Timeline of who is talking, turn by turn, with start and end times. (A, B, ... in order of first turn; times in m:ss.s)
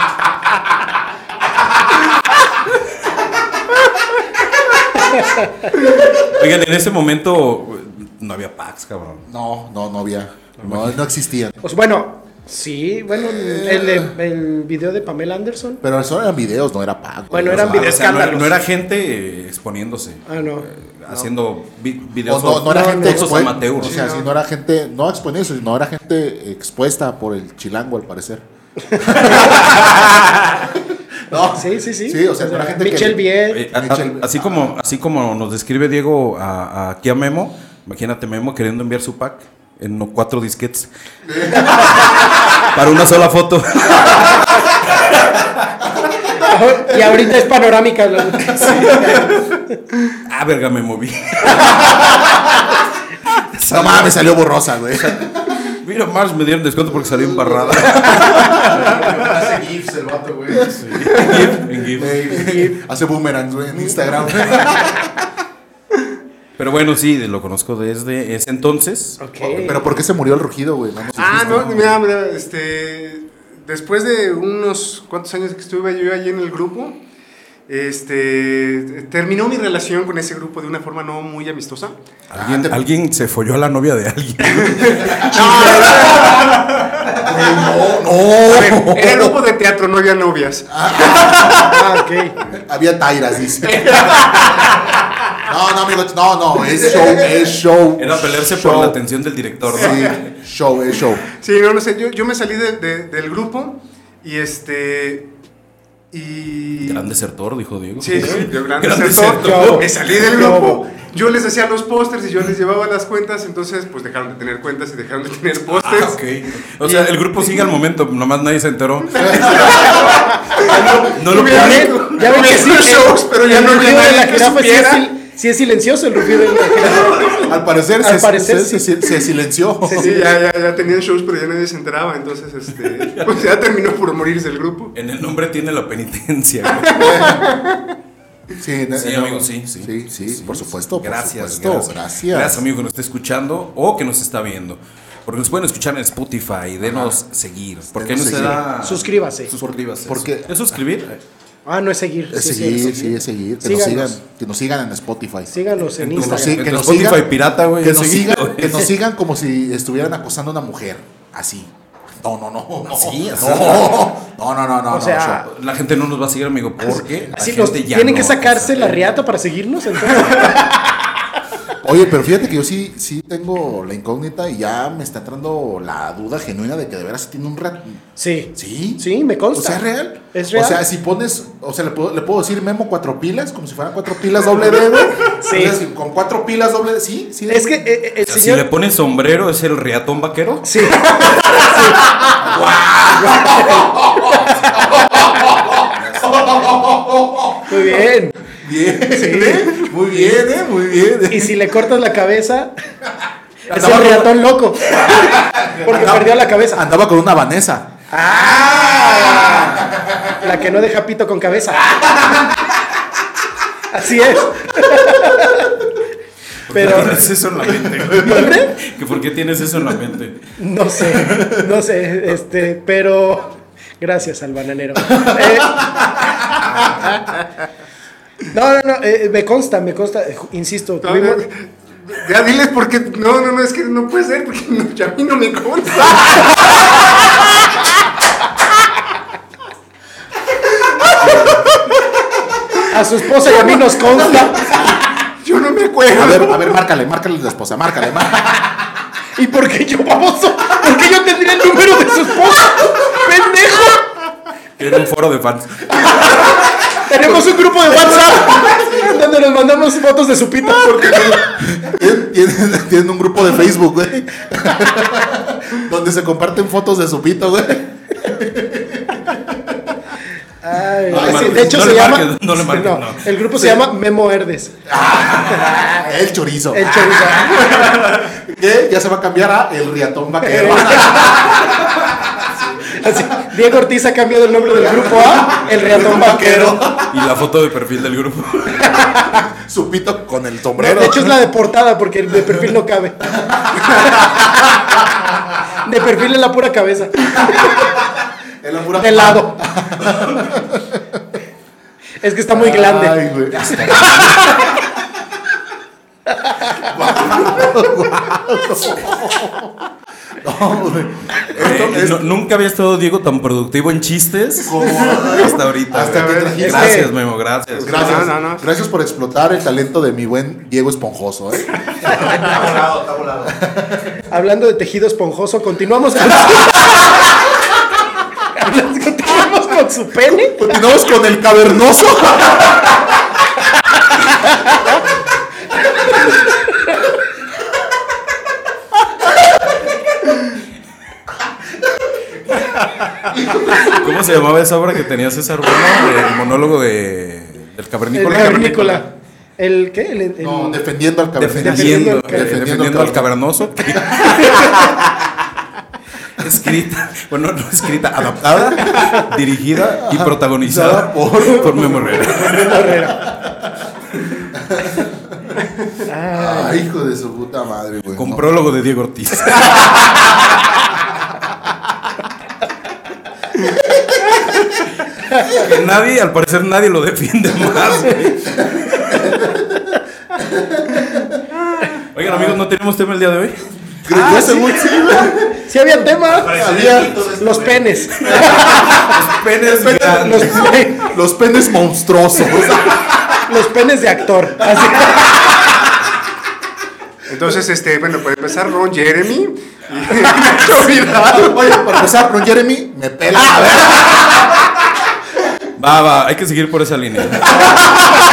0:05.0-0:05.7 A
0:05.9-0:09.3 B
0:09.3-0:11.6 C
0:10.6-0:11.0 B
0:11.6-0:15.8 A
0:13.1-0:14.2 C
0:15.8-0:17.9 C
0:17.3-0:18.6 A
0:17.4-0:24.0 B
0:20.3-0:20.7 A
0:22.3-0:28.4 C
0:22.6-0:23.4 A
0:23.8-0:24.3 D
0:28.9-0:29.6 A
0:29.0-0:34.8 C
0:31.3-0:33.7 A
0:33.5-0:40.9 B
0:41.3-0:42.2 C
0:41.7-0:44.7 B
0:46.3-0:49.4 A
0:48.6-0:49.4 B
0:50.3-0:52.0 B
0:53.4-0:54.3 B
0:53.7-0:55.5 C
0:55.1-0:58.7 B
0:57.7-0:58.5 C
0:58.5-1:01.0 E
1:00.6-1:02.4 B
1:01.2-1:05.2 C
1:02.3-1:02.8 A
1:06.6-1:09.2 B
1:09.2-1:09.8 A
1:09.4-1:12.0 C
1:11.2-1:17.0 D
1:11.3-1:11.9 B
1:17.7-1:22.0 D
1:22.3-1:25.9 B
1:22.3-1:22.8 C
1:24.5-1:26.8 D
1:25.0-1:29.4 C
1:28.4-1:31.8 D
1:30.7-1:31.7 C
1:31.6-1:32.4 A
1:32.5-1:34.2 C
1:33.6-1:35.2 D
1:35.4-1:39.0 C
1:38.0-1:40.2 B
1:39.7-1:41.2 C
1:39.7-1:40.2 D
1:41.3-1:45.3 D
1:46.1-1:47.1 D
1:46.8-1:50.0 B
1:48.0-1:56.2 D
1:48.1-1:48.5 A
1:49.4-1:50.8 A
1:55.7-1:59.9 B
1:56.8-1:57.7 D
1:59.1-2:05.1 D
1:59.2-2:01.3 C
2:01.1-2:02.3 B
2:01.3-2:09.0 A
2:07.4-2:10.1 C
2:09.8-2:10.4 A
2:09.9-2:14.9 D
2:13.0-2:13.5 B
2:14.9-2:17.2 B
2:16.8-2:17.8 D
2:17.0-2:17.4 C
2:18.6-2:22.6 C
2:19.0-2:31.2 B
2:26.8-2:27.2 C
2:28.0-2:28.6 C
2:28.6-2:29.5 A
2:30.0-2:30.5 C
2:31.7-2:34.2 A
2:32.3-2:35.6 C
2:35.5-2:36.7 A
2:36.0-2:38.9 B
2:36.1-2:45.5 C
2:42.9-2:44.1 B
2:44.9-2:45.5 A
2:45.5-2:49.0 B
2:46.8-2:51.0 A
2:51.8-2:58.0 C
2:58.2-3:00.8 A
2:58.6-3:07.8 C
3:05.2-3:05.8 A
3:07.5-3:08.7 A
3:08.2-3:11.0 B
3:10.6-3:12.2 A
3:11.6-3:18.0 C
3:13.2-3:14.9 A
3:15.8-3:16.8 B
3:17.7-3:18.4 A
3:18.6-3:21.7 C
3:19.1-3:19.8 A
3:21.3-3:22.7 A
3:23.7-3:26.9 A
3:23.7-3:24.4 C
3:25.0-3:27.9 C
3:28.1-3:32.2 A
3:28.8-3:30.1 C
3:33.9-3:35.8 A
3:36.7-3:40.5 B
3:36.7-3:37.3 A
3:38.1-3:38.8 A
3:40.6-3:46.1 A
3:41.2-3:41.7 C
3:45.1-3:46.3 C
3:46.8-3:47.2 A
3:48.5-3:51.4 A
3:51.0-3:57.5 D
4:01.2-4:01.6 C
4:01.4-4:01.7 D
4:02.9-4:04.8 A
4:05.4-4:06.8 D
4:06.1-4:08.8 C
4:09.4-4:14.1 A
4:14.8-4:16.0 B
4:16.3-4:21.4 A
4:17.2-4:19.1 C
4:20.6-4:29.9 C
4:30.6-4:34.8 A
4:31.1-4:32.2 C
4:31.1-4:33.3 B
4:33.6-4:33.9 C
4:34.9-4:42.1 C
4:35.3-4:36.1 A
4:36.7-4:38.0 A
4:40.4-4:41.6 A
4:42.8-4:46.9 A
4:44.8-4:47.1 C
4:47.1-4:49.1 B
4:49.0-4:49.4 A
4:49.4-4:51.4 C
4:50.8-4:53.2 A
4:53.3-4:54.9 C
4:53.8-4:54.8 A
4:55.7-4:57.8 A
4:58.6-5:01.2 C
4:59.0-4:59.6 A
5:02.2-5:03.2 A
5:02.5-5:04.7 C
5:03.7-5:04.5 B
5:06.5-5:06.9 A
5:06.8-5:09.8 C
5:10.4-5:12.3 C
5:11.5-5:18.2 B
5:14.6-5:17.1 C
5:15.2-5:15.5 D
5:16.0-5:16.6 D
5:16.6-5:17.1 A
5:17.8-5:18.7 D
5:17.8-5:22.7 C
5:22.0-5:23.6 E
5:23.5-5:24.0 C
5:24.3-5:27.2 A
5:28.4-5:30.7 A
5:30.5-5:32.9 C
5:43.2-5:44.0 C
5:43.7-5:49.0 B
5:48.1-5:50.8 A
5:50.4-5:54.5 C
5:51.4-5:55.0 B
5:51.6-5:52.6 A
5:54.0-5:54.9 A
5:56.4-6:02.8 B
5:58.4-5:59.2 C
5:59.9-6:03.7 C
6:01.4-6:03.3 A
6:04.5-6:05.6 C
6:06.0-6:06.8 A
6:06.3-6:08.5 C
6:08.2-6:09.8 B
6:15.4-6:19.2 B
6:19.2-6:19.7 C
6:20.5-6:21.2 C
6:22.1-6:23.7 B
6:24.0-6:25.6 C
6:24.1-6:26.6 A
6:26.2-6:28.3 E
6:26.5-6:27.3 C
6:27.4-6:29.2 A
6:28.3-6:30.7 B
6:29.9-6:31.1 A
6:30.3-6:33.4 C
6:33.5-6:35.6 A
6:37.3-6:41.8 D
6:41.1-6:44.4 C
6:45.8-6:47.7 B
6:47.6-6:47.9 C